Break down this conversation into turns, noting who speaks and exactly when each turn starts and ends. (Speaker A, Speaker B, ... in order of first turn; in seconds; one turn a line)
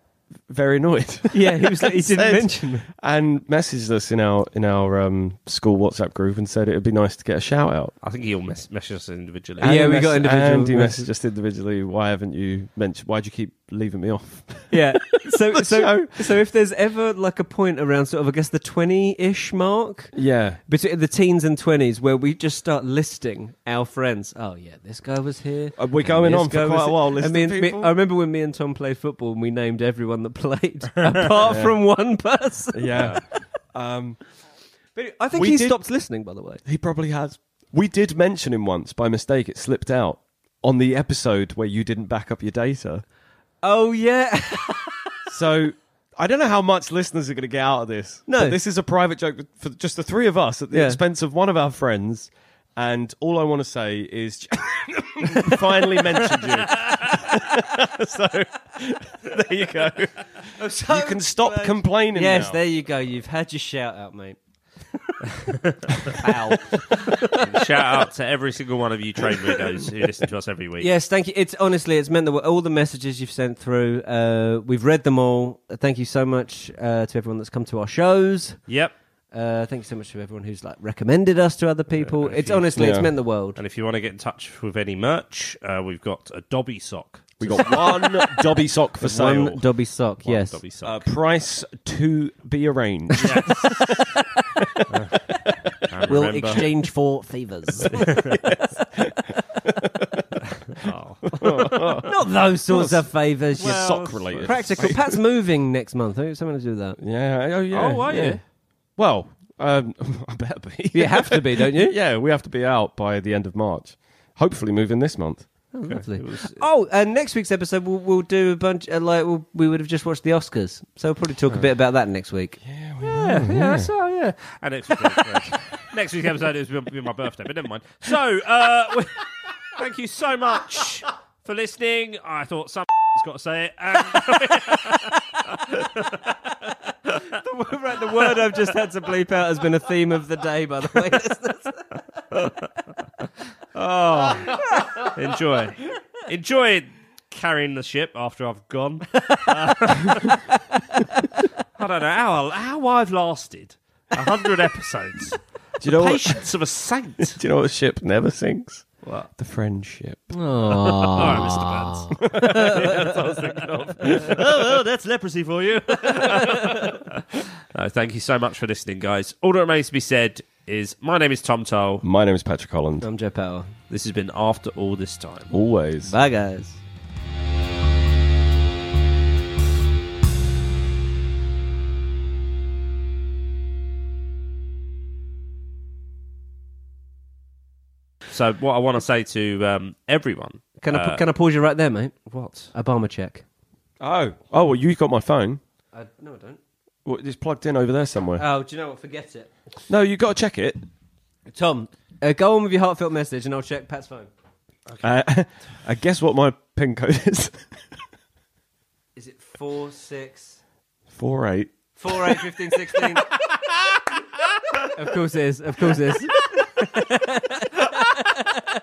Speaker A: 0.4-7.9
Speaker B: 1.3-2.9
Speaker C: 8.0-9.7
Speaker A: 9.6-16.4
Speaker B: 9.6-11.1
Speaker B: 14.7-20.1
Speaker A: 20.1-20.6
Speaker B: 20.7-33.3
Speaker A: 25.8-28.0
Speaker A: 31.4-31.8
Speaker A: 32.7-34.2
Speaker B: 35.0-36.6
Speaker A: 35.3-35.8
Speaker A: 36.6-43.0
Speaker B: 43.6-44.9
Speaker A: 45.3-62.6
Speaker B: 48.3-48.6
Speaker B: 50.7-51.0
Speaker B: 60.6-64.4
Speaker B: 66.1-67.2
Speaker C: 67.3-70.9
Speaker B: 70.8-78.8
Speaker C: 78.7-79.0
Speaker B: 79.3-83.6
Speaker C: 82.0-82.7
Speaker A: 82.8-83.1
Speaker C: 83.5-87.8
Speaker A: 87.4-89.6
Speaker B: 89.0-90.6
Speaker C: 90.2-91.0
Speaker A: 90.8-94.1
Speaker C: 93.2-93.9
Speaker C: 95.9-96.7
Speaker B: 96.1-97.9
Speaker A: 97.8-99.1
Speaker C: 100.7-102.0
Speaker A: 101.4-105.2
Speaker B: 102.0-103.9
Speaker C: 103.6-105.0
Speaker B: 104.5-107.0
Speaker A: 107.0-108.4
Speaker C: 107.7-108.4
Speaker A: 109.0-115.5
Speaker B: 110.9-112.0
Speaker B: 115.7-122.6
Speaker C: 115.8-116.7
Speaker A: 122.6-123.9
Speaker C: 123.1-135.2
Speaker C: 135.7-136.1
Speaker B: 137.4-141.8
Speaker C: 143.8-150.4
Speaker C: 151.8-157.4
Speaker A: 155.8-156.4
Speaker A: 157.2-160.4
Speaker C: 159.0-159.3
Speaker B: 160.3-162.7
Speaker C: 161.1-167.2
Speaker A: 161.2-161.5
Speaker A: 162.2-164.8
Speaker B: 166.2-166.6
Speaker C: 167.7-172.1
Speaker A: 172.0-173.1
Speaker B: 173.0-173.7
Speaker C: 173.9-175.5
Speaker A: 175.5-176.1
Speaker B: 176.1-176.8
Speaker C: 188.3-191.2
Speaker B: 190.8-192.2
Speaker C: 192.3-192.7
Speaker B: 192.7-193.4
Speaker A: 194.0-195.6
Speaker B: 195.9-196.6
Speaker A: 197.1-198.4
Speaker B: 198.4-199.5
Speaker A: 199.9-200.9
Speaker B: 201.5-204.3
Speaker A: 205.0-207.7
Speaker B: 209.2-210.6
Speaker A: 211.1-212.4
Speaker B: 212.0-213.3
Speaker B: 214.9-218.6